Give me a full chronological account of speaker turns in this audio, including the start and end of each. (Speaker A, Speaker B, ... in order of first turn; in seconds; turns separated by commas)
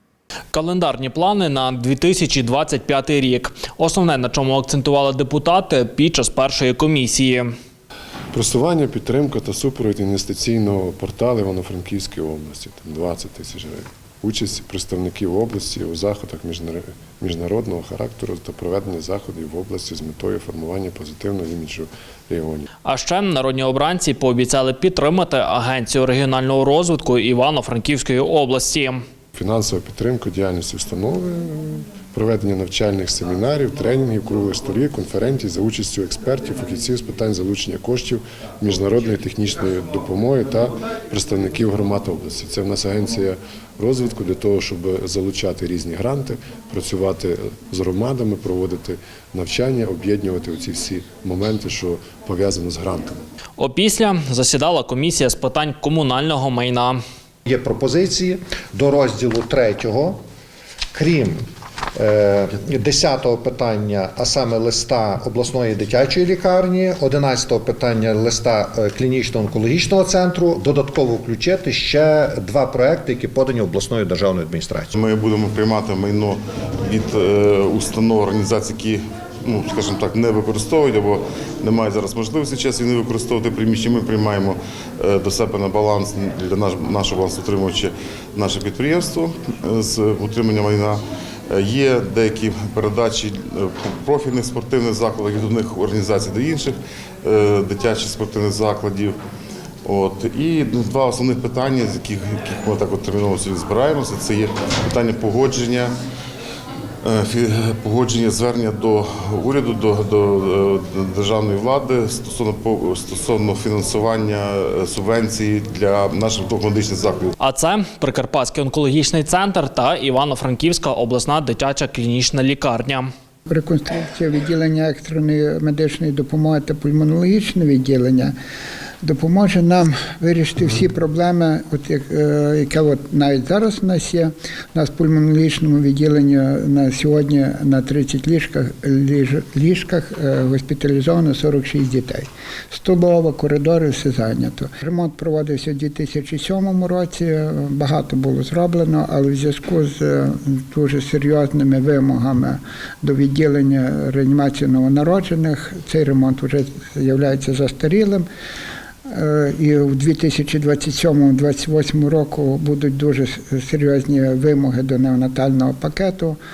Speaker A: 0.5-7.5, Speaker B: 8.3-22.7, Speaker A: 22.9-29.0, Speaker B: 29.3-53.2, Speaker A: 53.6-57.0, Speaker C: 57.5-60.2, Speaker C: 60.9-61.4, Speaker C: 62.0-75.0, Speaker D: 74.9-99.1, Speaker D: 99.8-105.9, Speaker D: 107.0-117.3, Speaker A: 117.4-123.1, Speaker E: 123.5-128.3, Speaker E: 129.0-158.3, Speaker E: 159.1-166.4